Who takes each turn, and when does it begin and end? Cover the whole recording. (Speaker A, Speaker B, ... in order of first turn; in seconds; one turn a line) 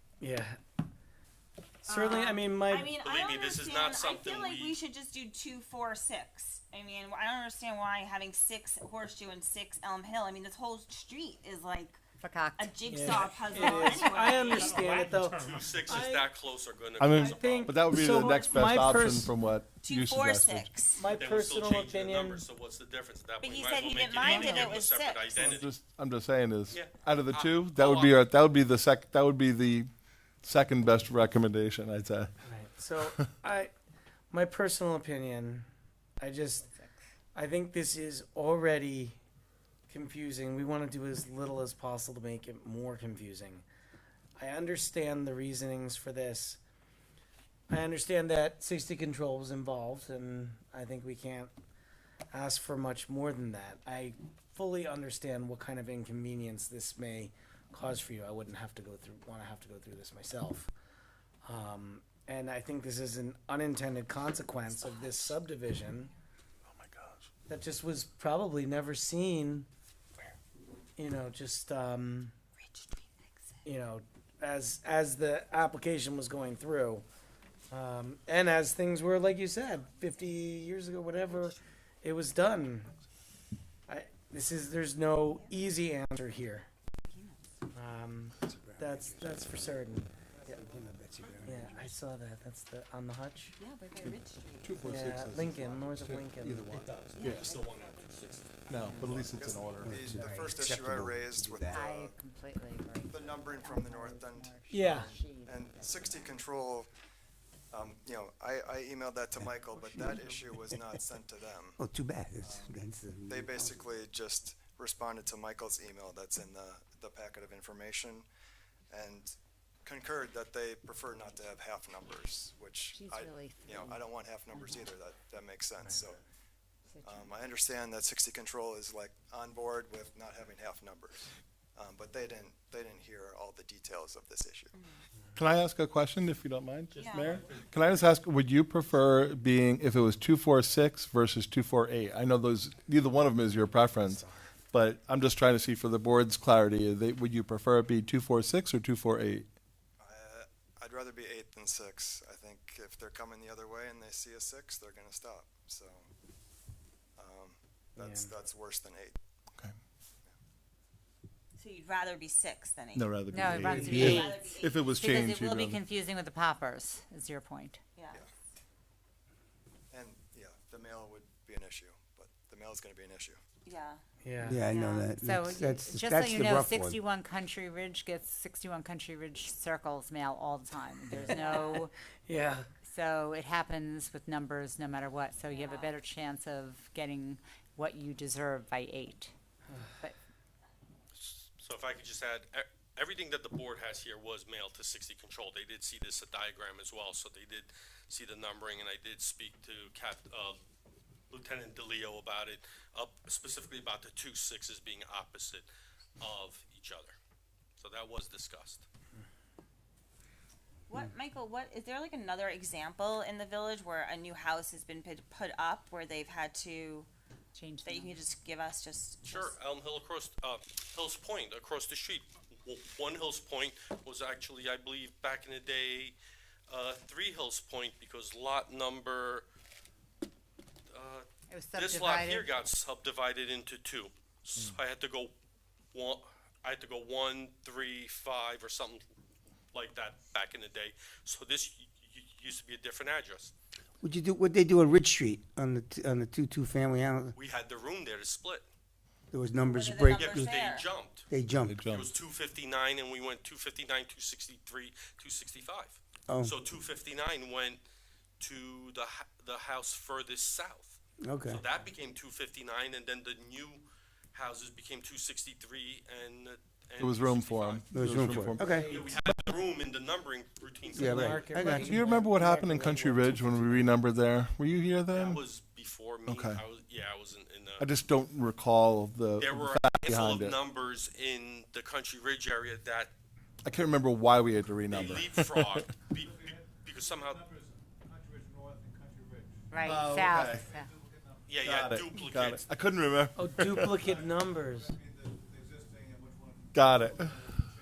Speaker A: 0.2-0.6
Speaker A: 1.8-3.0
Speaker B: 1.9-12.0
Speaker C: 3.0-4.8
Speaker D: 12.2-13.4
Speaker B: 12.6-15.3
Speaker A: 12.9-16.3
Speaker C: 14.5-17.9
Speaker E: 17.0-20.8
Speaker A: 17.1-19.3
Speaker B: 17.9-19.3
Speaker B: 19.8-21.1
Speaker A: 20.9-22.4
Speaker C: 21.1-25.7
Speaker B: 23.4-25.4
Speaker E: 25.4-32.3
Speaker C: 26.7-28.2
Speaker A: 32.4-33.7
Speaker E: 33.0-33.3
Speaker A: 34.3-35.7
Speaker A: 36.2-36.7
Speaker D: 36.6-37.0
Speaker A: 37.3-39.2
Speaker A: 39.9-43.6
Speaker A: 44.4-46.6
Speaker A: 47.7-51.5
Speaker A: 52.3-60.7
Speaker A: 61.4-66.1
Speaker B: 64.7-66.1
Speaker E: 66.7-67.2
Speaker A: 67.5-69.7
Speaker A: 71.0-72.3
Speaker B: 72.6-73.3
Speaker A: 73.6-77.0
Speaker A: 77.7-82.9
Speaker B: 81.3-81.6
Speaker A: 83.9-86.7
Speaker B: 85.3-85.5
Speaker B: 87.0-87.4
Speaker A: 87.7-90.1
Speaker F: 88.4-89.7
Speaker F: 90.5-92.0
Speaker A: 91.4-93.5
Speaker B: 93.6-94.8
Speaker E: 94.6-97.5
Speaker A: 94.8-96.7
Speaker F: 96.6-97.2
Speaker B: 97.1-98.9
Speaker C: 97.4-99.3
Speaker E: 98.7-100.3
Speaker G: 99.3-102.2
Speaker F: 99.8-101.9
Speaker D: 101.7-106.4
Speaker G: 103.1-106.9
Speaker A: 104.6-105.1
Speaker G: 107.7-111.8
Speaker F: 109.4-110.8
Speaker F: 111.8-113.9
Speaker G: 112.4-118.3
Speaker G: 118.9-126.2
Speaker D: 122.9-124.9
Speaker D: 126.9-127.4
Speaker G: 127.0-134.8
Speaker B: 134.8-135.0
Speaker E: 135.3-149.5
Speaker B: 136.9-137.5
Speaker A: 144.1-144.5
Speaker G: 150.0-156.1
Speaker G: 157.2-159.2
Speaker A: 158.0-158.3
Speaker B: 161.6-163.2
Speaker E: 162.9-165.8
Speaker D: 163.3-164.4
Speaker B: 163.8-165.0
Speaker F: 163.9-164.2
Speaker D: 164.9-167.8
Speaker G: 169.9-173.4
Speaker B: 173.7-174.0
Speaker A: 174.2-174.7
Speaker F: 174.4-177.0
Speaker B: 174.6-175.1
Speaker D: 175.2-181.9
Speaker B: 181.2-181.7
Speaker A: 182.3-182.7
Speaker D: 182.8-189.3
Speaker B: 185.5-185.9
Speaker C: 191.1-200.6
Speaker C: 201.3-205.7
Speaker C: 206.2-207.2
Speaker C: 207.8-208.8
Speaker B: 210.9-217.1
Speaker D: 217.5-218.2
Speaker B: 217.8-219.5
Speaker C: 219.2-226.2
Speaker C: 226.7-229.5
Speaker C: 230.9-235.3
Speaker D: 231.5-232.5
Speaker C: 235.9-239.1
Speaker C: 239.7-243.5
Speaker F: 244.0-247.3
Speaker C: 247.3-248.7
Speaker F: 249.3-250.6
Speaker B: 249.7-250.9
Speaker C: 250.1-251.2
Speaker F: 251.3-251.8
Speaker E: 251.7-252.1
Speaker C: 251.8-257.8
Speaker F: 256.3-256.5
Speaker C: 258.4-271.7
Speaker F: 261.2-261.6
Speaker E: 267.0-268.8
Speaker F: 267.9-269.1
Speaker A: 268.6-269.2
Speaker F: 270.9-272.0
Speaker A: 270.9-273.8
Speaker E: 271.7-275.4
Speaker C: 275.1-277.9
Speaker E: 276.3-276.6
Speaker E: 277.8-280.6
Speaker C: 279.4-283.1
Speaker E: 283.6-285.9
Speaker C: 284.9-287.5
Speaker D: 289.7-290.9
Speaker E: 289.8-290.8
Speaker C: 291.5-292.7
Speaker E: 291.6-294.0
Speaker A: 293.4-295.0
Speaker E: 296.7-297.6